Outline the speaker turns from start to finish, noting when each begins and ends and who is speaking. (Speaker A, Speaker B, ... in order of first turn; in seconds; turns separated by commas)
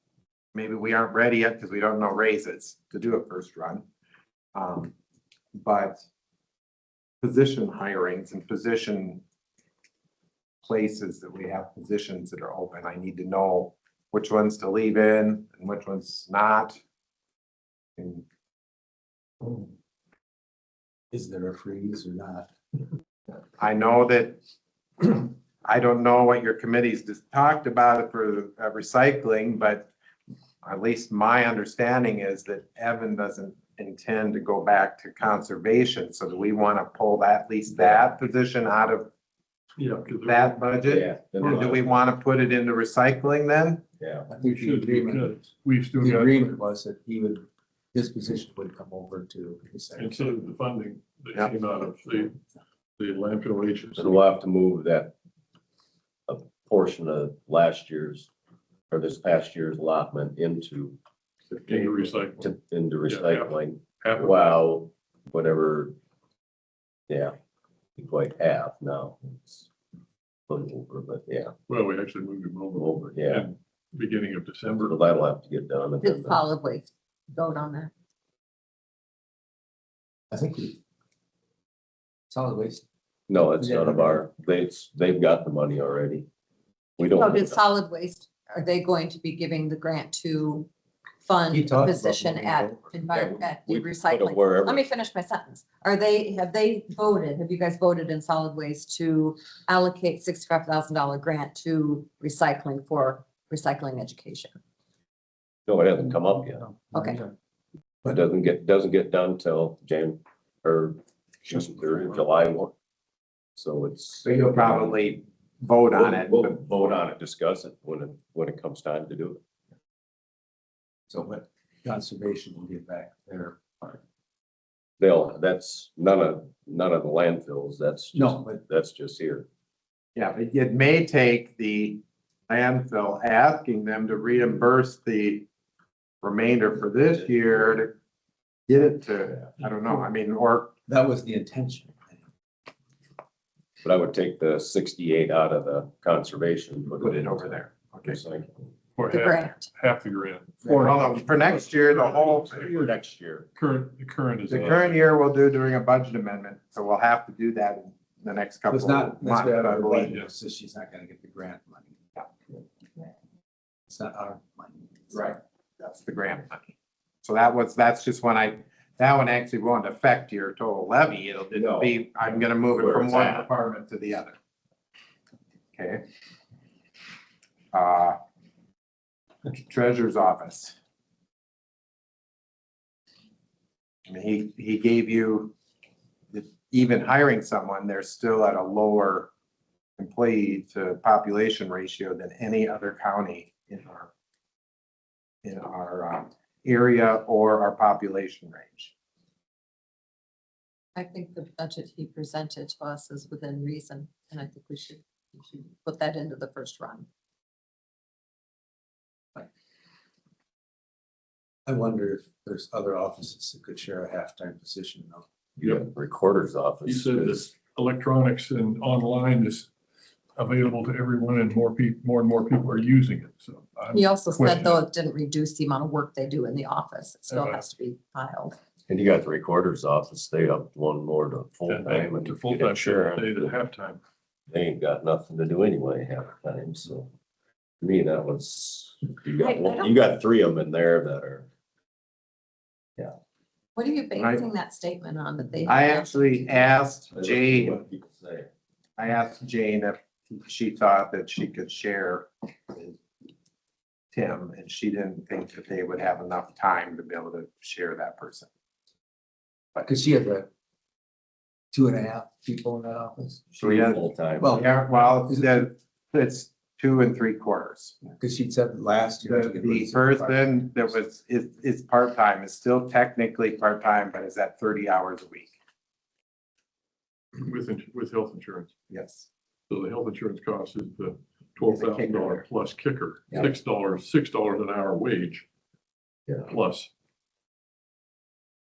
Speaker A: 0.5-3.9, Speaker A: 4.5-4.9, Speaker A: 5.5-6.0, Speaker A: 7.2-9.2, Speaker A: 10.6-16.8, Speaker A: 18.0-18.2, Speaker B: 21.1-22.5, Speaker A: 23.6-24.4, Speaker A: 25.0-29.9, Speaker A: 30.6-39.1, Speaker C: 37.8-38.0, Speaker D: 39.8-41.7, Speaker A: 40.2-43.8, Speaker C: 40.9-41.9, Speaker C: 44.0-44.3, Speaker B: 44.3-45.4, Speaker D: 44.4-46.6, Speaker B: 46.0-50.3, Speaker D: 50.0-52.4, Speaker D: 53.0-54.3, Speaker C: 54.0-55.1, Speaker C: 56.3-58.3, Speaker C: 58.9-61.0, Speaker D: 61.5-62.5, Speaker C: 61.7-66.0, Speaker D: 63.0-64.6, Speaker C: 67.1-67.4, Speaker C: 68.0-69.7, Speaker C: 70.5-71.5, Speaker D: 71.7-75.0, Speaker C: 72.8-73.5, Speaker C: 74.7-76.4, Speaker E: 76.0-77.9, Speaker B: 80.3-80.8, Speaker B: 82.3-82.8, Speaker C: 83.3-86.3, Speaker B: 83.6-84.2, Speaker C: 87.0-87.6, Speaker E: 87.0-90.7, Speaker E: 91.2-104.6, Speaker B: 91.5-92.9, Speaker C: 93.1-94.8, Speaker C: 105.7-106.7, Speaker B: 106.9-107.2, Speaker E: 106.9-107.2, Speaker C: 108.0-112.7, Speaker C: 113.6-115.1, Speaker A: 114.2-116.7, Speaker C: 115.9-119.4, Speaker B: 121.1-124.0, Speaker C: 125.0-129.5, Speaker B: 128.1-128.6, Speaker A: 130.2-135.5, Speaker A: 136.2-138.0, Speaker A: 138.7-140.7, Speaker B: 140.9-142.2, Speaker C: 143.8-148.7, Speaker A: 147.0-148.2, Speaker D: 149.0-152.9, Speaker E: 149.1-149.7, Speaker B: 150.6-151.0, Speaker A: 150.7-152.7, Speaker C: 152.6-153.5, Speaker D: 153.6-155.0, Speaker A: 154.5-160.1, Speaker B: 158.7-161.9, Speaker B: 163.9-164.9, Speaker A: 165.1-174.3, Speaker C: 171.5-173.5, Speaker A: 175.8-176.0, Speaker A: 177.7-178.2, Speaker A: 179.5-180.8, Speaker A: 184.1-185.5, Speaker A: 186.3-189.3, Speaker A: 190.0-194.1, Speaker A: 195.4-198.9, Speaker E: 200.9-207.1, Speaker B: 211.7-215.3, Speaker C: 215.6-217.5, Speaker D: 216.8-219.7, Speaker D: 220.4-224.8, Speaker E: 223.9-228.6, Speaker D: 227.3-227.6, Speaker C: 228.9-233.5, Speaker D: 231.7-234.0, Speaker C: 234.5-237.1, Speaker C: 237.8-241.5, Speaker E: 239.4-239.9, Speaker E: 243.8-246.6, Speaker A: 244.2-244.4, Speaker A: 245.7-247.8, Speaker C: 247.1-248.5, Speaker A: 249.0-253.0, Speaker A: 254.1-258.5, Speaker B: 259.8-260.5, Speaker B: 261.7-263.3, Speaker A: 263.5-268.0, Speaker C: 263.6-264.6, Speaker B: 264.4-265.6, Speaker B: 268.2-270.5, Speaker A: 269.3-275.5, Speaker D: 277.4-278.7, Speaker A: 278.9-279.3, Speaker D: 279.7-285.5, Speaker A: 281.6-282.5, Speaker D: 286.4-286.9